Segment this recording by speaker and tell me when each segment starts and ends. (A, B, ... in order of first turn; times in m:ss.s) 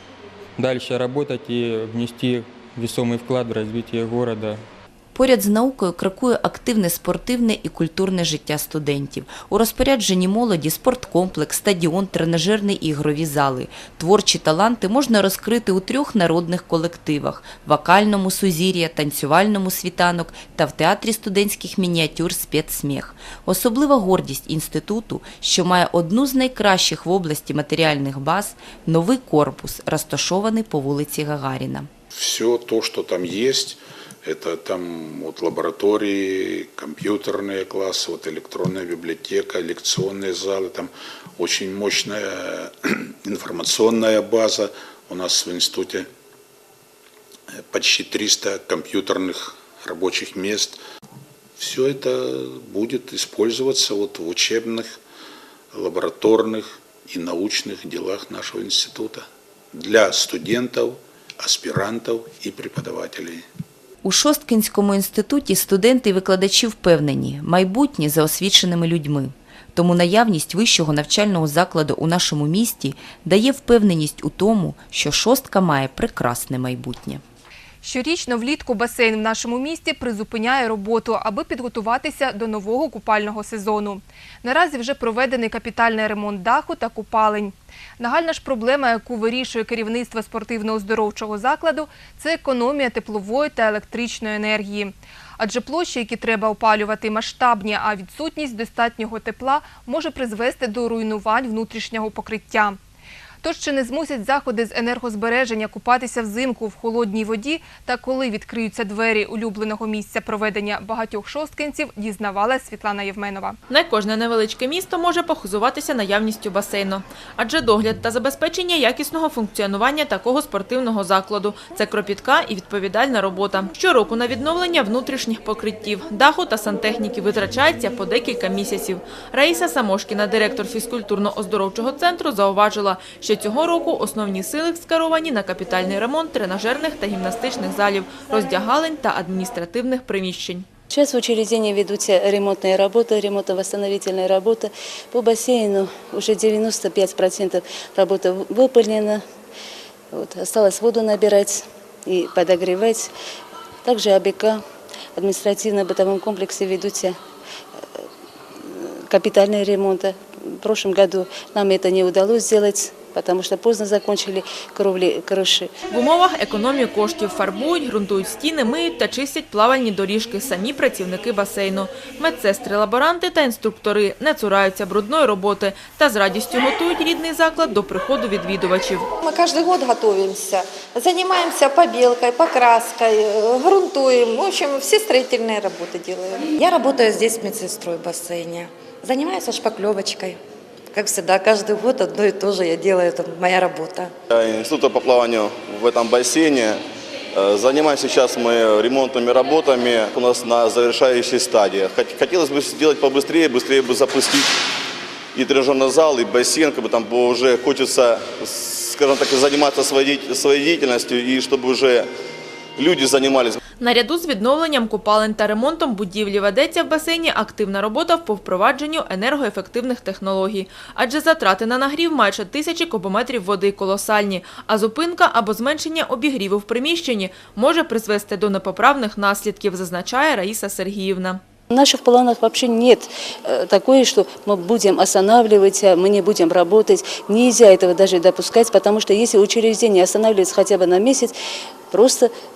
0:00.6-0:04.6 A
0:05.1-0:31.9 B
0:32.1-0:46.1 C
0:47.7-0:50.8 C
0:51.6-0:55.0 C
0:55.7-1:03.4 C
1:04.0-1:17.2 B
1:17.8-1:42.8 D
1:43.4-1:53.6 D
1:53.7-2:20.6 E
2:20.9-2:29.2 F
2:30.1-2:33.1 F
2:33.8-2:34.6 F
2:35.1-2:37.2 F
2:38.6-2:45.7 F
2:45.9-2:59.1 E
2:59.2-3:06.5 G
3:06.5-3:10.4 H
3:10.9-3:14.1 H
3:14.3-3:16.8 I
3:17.3-3:24.5 I
3:25.3-3:32.1 I
3:32.8-3:33.6 I
3:33.8-3:51.4 E
3:51.7-4:01.3 F
4:01.9-4:02.3 F